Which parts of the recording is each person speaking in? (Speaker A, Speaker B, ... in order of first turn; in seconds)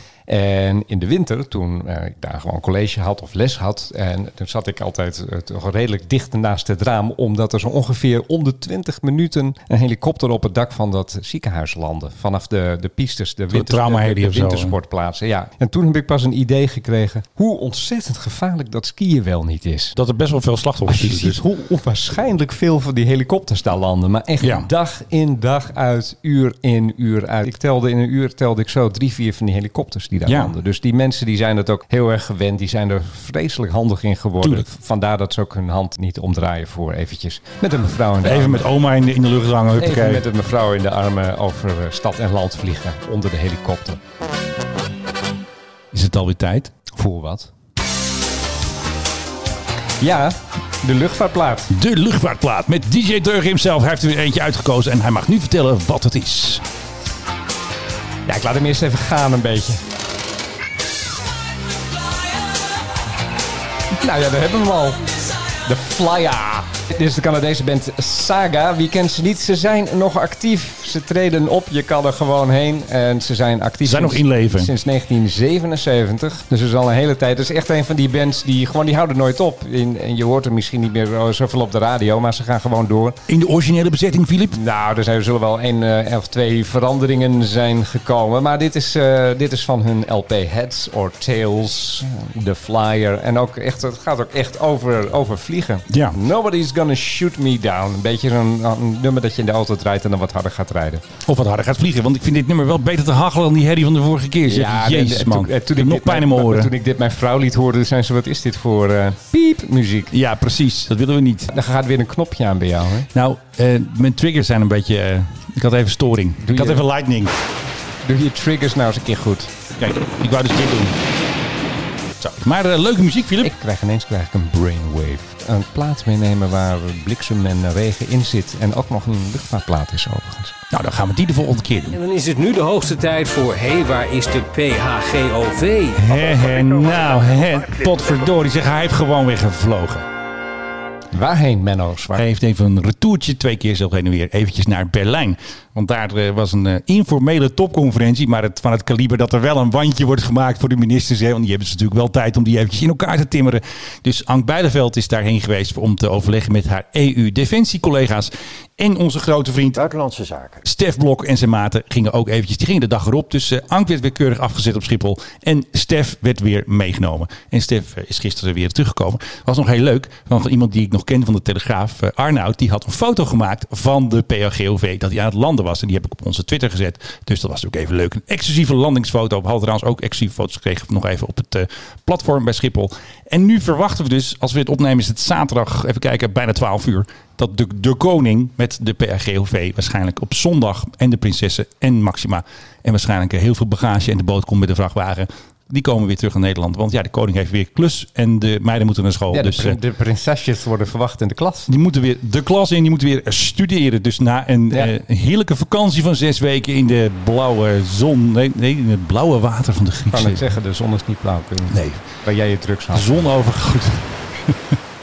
Speaker A: 0.3-19.9, 20.9-38.7, 39.8-44.0, 46.9-47.5, 50.0-51.7, 58.2-59.8, 63.9-65.1, 65.6-83.2, 84.5-101.0, 104.5-110.1, 111.5-113.1, 116.4-116.9, 118.0-119.5, 123.4-130.6, 141.1-142.2, 199.3-201.7, 210.1-213.3
Speaker B: 13.5-14.7, 19.9-21.4, 24.4-24.7, 30.3-30.5, 38.2-40.2, 45.9-46.7, 51.7-56.6, 73.8-74.7, 83.3-84.6, 95.9-96.2, 101.2-106.7, 110.1-111.5, 113.1-117.3, 119.8-120.9, 122.2-123.5, 130.7-132.0, 135.9-140.1, 142.1-160.0, 160.6-199.8, 201.7-210.4, 211.7-212.1, 212.9-214.8
Speaker C: 131.9-136.4